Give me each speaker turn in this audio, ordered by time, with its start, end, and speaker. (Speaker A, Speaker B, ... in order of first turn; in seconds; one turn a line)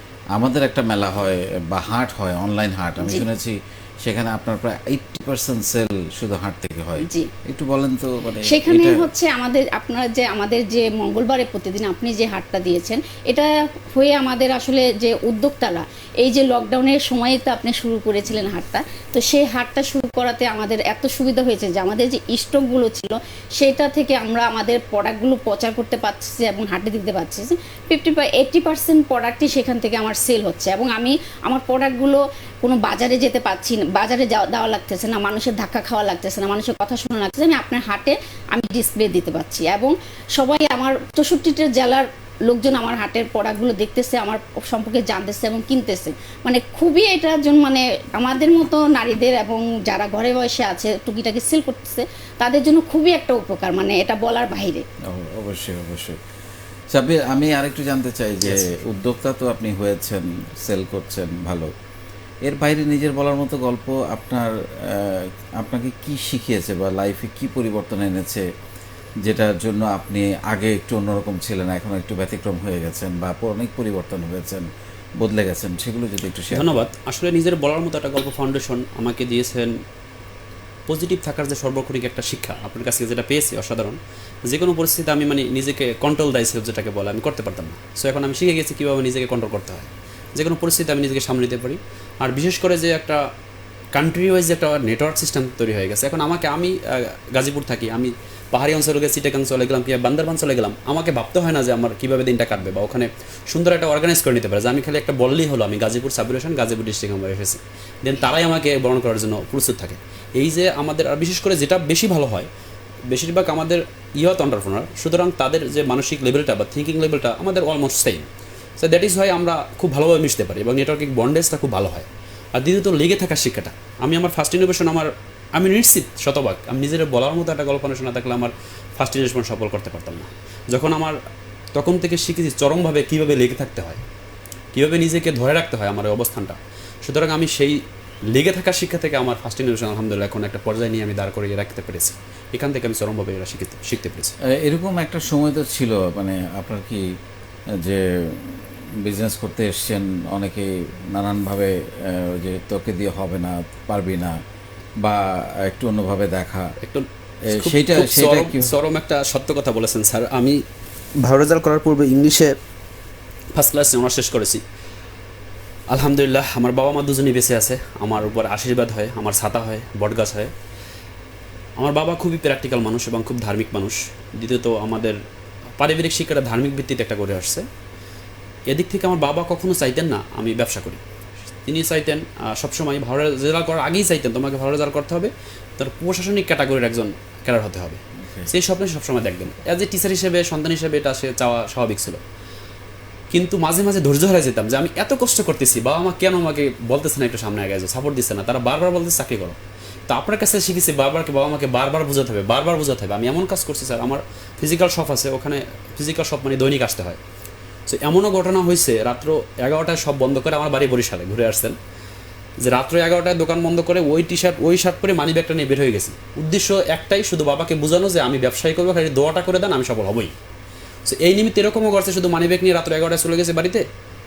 Speaker A: 0.3-9.1
Speaker B: 3.0-3.3
Speaker B: 7.0-7.3
Speaker B: 8.4-54.8
Speaker A: 55.1-56.2
Speaker A: 56.9-61.7
Speaker A: 62.4-68.5
Speaker A: 69.2-74.7
Speaker A: 75.2-76.8
Speaker C: 76.5-79.8
Speaker C: 80.9-93.2
Speaker C: 93.9-112.5
Speaker C: 113.1-118.3
Speaker C: 118.8-131.2
Speaker C: 131.7-134.0
Speaker C: 134.7-137.8
Speaker C: 138.3-144.3
Speaker A: 144.4-147.2
Speaker A: 147.7-154.4
Speaker A: 155.0-156.7
Speaker C: 156.8-160.6
Speaker A: 157.4-158.8
Speaker C: 161.2-162.5
Speaker C: 163.5-164.6
Speaker C: 165.9-170.5
Speaker C: 171.8-175.2
Speaker C: 175.8-177.7
Speaker C: 178.7-181.0
Speaker C: 181.6-192.2
Speaker A: 188.2-188.5
Speaker C: 193.3-199.6
Speaker C: 200.1-207.2
Speaker C: 207.9-211.8
Speaker C: 212.6-220.3
Speaker C: 221.1-223.8